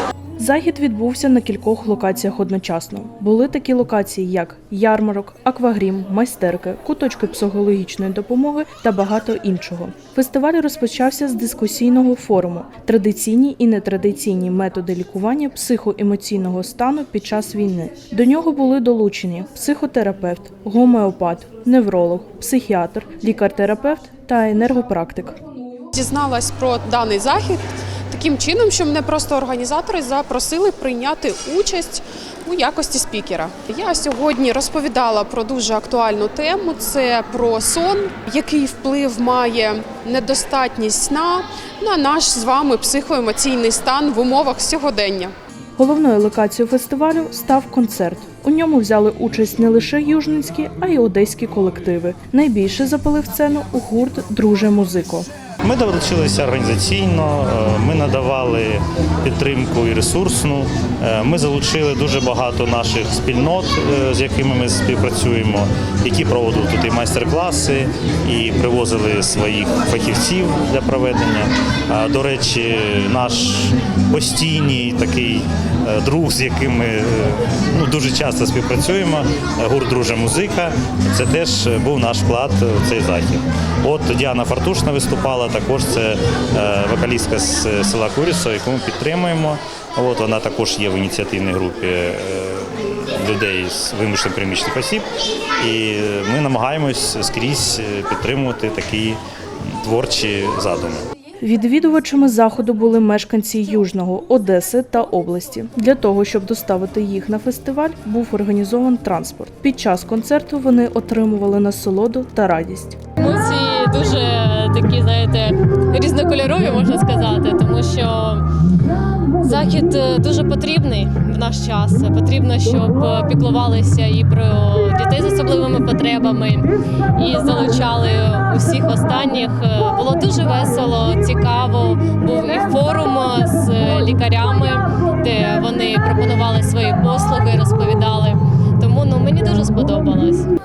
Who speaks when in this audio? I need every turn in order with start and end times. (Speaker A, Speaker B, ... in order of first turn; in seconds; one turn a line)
Speaker A: 0.4-25.4
Speaker B: 25.9-45.3
Speaker A: 45.8-55.3
Speaker C: 55.6-95.1
Speaker C: 95.6-101.0
Speaker A: 101.4-113.0
Speaker D: 113.2-118.5
Speaker D: 119.4-140.4